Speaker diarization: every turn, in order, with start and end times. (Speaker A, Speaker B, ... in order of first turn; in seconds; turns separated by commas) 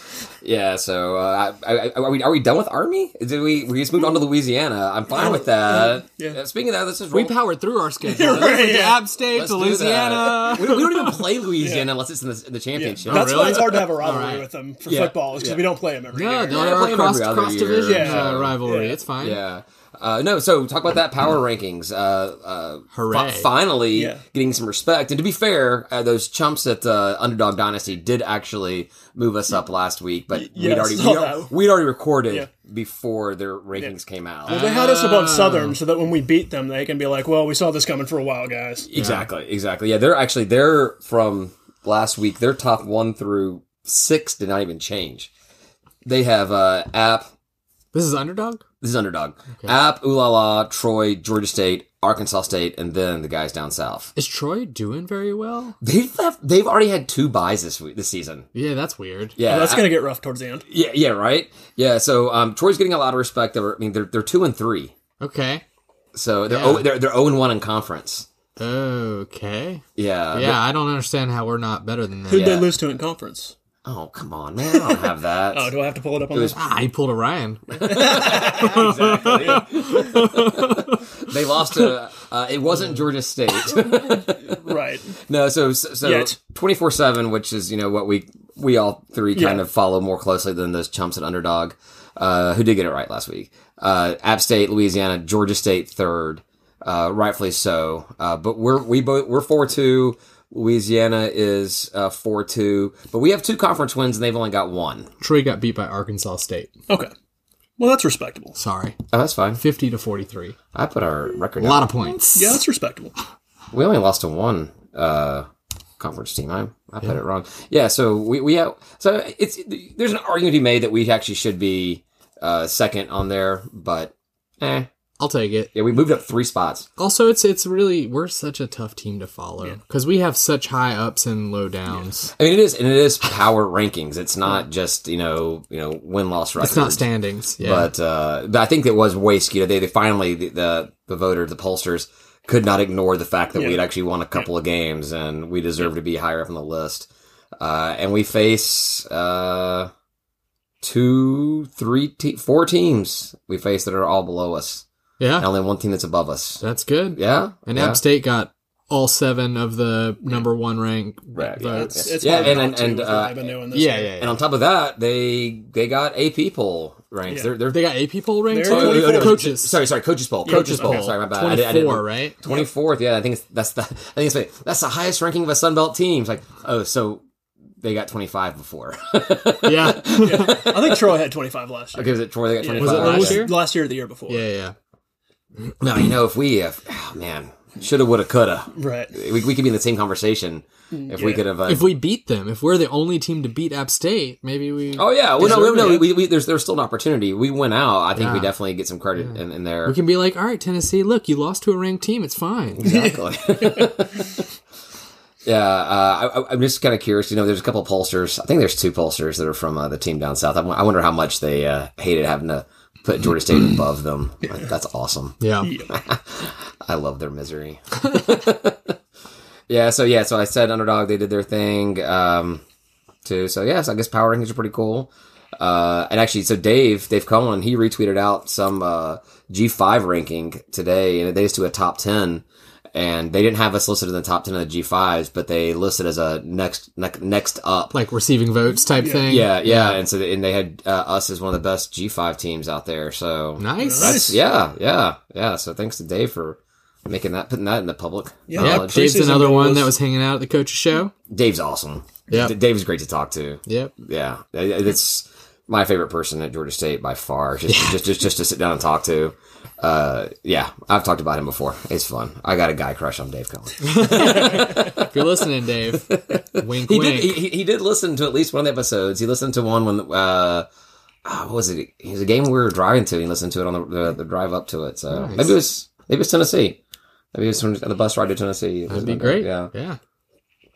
Speaker A: 0.4-7.4, Speaker B: 5.2-6.4, Speaker C: 7.1-11.2, Speaker B: 8.0-9.1, Speaker A: 9.3-13.9, Speaker B: 11.6-11.9, Speaker B: 12.8-16.8, Speaker C: 13.1-14.5, Speaker A: 14.9-15.7, Speaker C: 16.1-19.4, Speaker A: 16.5-18.6, Speaker B: 17.8-19.0, Speaker A: 19.2-34.6, Speaker C: 22.9-23.5, Speaker B: 23.9-24.2, Speaker B: 30.3-31.5, Speaker B: 34.5-38.9, Speaker C: 34.5-35.8, Speaker A: 38.9-45.3, Speaker C: 39.0-39.3, Speaker A: 46.0-47.3, Speaker C: 47.9-48.6, Speaker A: 48.8-54.1, Speaker C: 54.2-55.8, Speaker A: 55.8-58.5, Speaker C: 58.5-59.4, Speaker A: 59.4-59.9, Speaker B: 59.5-60.6, Speaker A: 60.7-64.9, Speaker C: 65.2-65.6, Speaker A: 66.1-68.3, Speaker C: 66.5-66.9, Speaker C: 68.6-72.6, Speaker A: 70.0-70.6, Speaker B: 72.3-73.5, Speaker A: 72.3-72.7, Speaker A: 73.8-75.7, Speaker B: 74.7-76.6, Speaker A: 76.3-76.6, Speaker C: 76.5-81.1, Speaker A: 77.7-105.1, Speaker B: 77.8-78.8, Speaker B: 84.2-85.2, Speaker B: 86.0-86.4, Speaker B: 89.3-89.6, Speaker C: 105.2-106.7, Speaker B: 107.8-108.6, Speaker C: 108.6-109.0, Speaker A: 109.1-109.6, Speaker C: 109.6-110.5, Speaker A: 110.7-111.9, Speaker C: 111.6-112.6, Speaker B: 112.3-113.1, Speaker A: 113.7-115.5, Speaker A: 116.0-124.9, Speaker C: 125.2-125.7, Speaker A: 125.7-126.9, Speaker C: 127.0-132.3, Speaker A: 132.4-137.1, Speaker C: 136.6-137.9, Speaker A: 137.6-149.9, Speaker A: 150.8-154.8, Speaker C: 155.2-155.5, Speaker A: 155.4-156.6, Speaker C: 156.6-162.6, Speaker A: 157.2-158.0, Speaker A: 161.3-163.5, Speaker B: 161.6-164.2, Speaker C: 163.7-164.4, Speaker A: 164.2-167.9, Speaker B: 167.3-167.5, Speaker C: 167.7-169.8, Speaker B: 168.5-169.4, Speaker A: 168.6-177.2, Speaker B: 170.5-171.1, Speaker C: 170.5-172.4, Speaker A: 177.8-181.0, Speaker C: 179.6-180.7, Speaker B: 180.2-184.4, Speaker A: 181.9-183.5, Speaker C: 182.8-183.6, Speaker C: 184.3-184.7, Speaker A: 185.8-191.9, Speaker B: 188.8-189.1, Speaker B: 190.9-191.4, Speaker C: 191.7-196.0, Speaker A: 195.0-200.0, Speaker B: 195.4-196.1, Speaker C: 198.2-198.5, Speaker C: 199.9-202.9, Speaker A: 202.8-204.4, Speaker B: 202.8-203.9, Speaker A: 205.4-219.0, Speaker C: 215.4-215.7, Speaker B: 215.6-215.9, Speaker A: 219.7-222.6, Speaker A: 223.2-238.0, Speaker C: 237.9-240.0, Speaker B: 239.0-239.3, Speaker A: 239.2-249.0, Speaker C: 243.6-244.2, Speaker B: 243.8-244.4, Speaker B: 248.5-249.9, Speaker C: 248.6-251.1, Speaker A: 251.3-265.2, Speaker C: 253.7-253.9, Speaker C: 257.7-258.0, Speaker C: 263.8-267.4, Speaker A: 265.9-270.7, Speaker A: 271.2-276.8, Speaker C: 275.1-275.6, Speaker A: 277.3-279.7, Speaker C: 278.9-280.0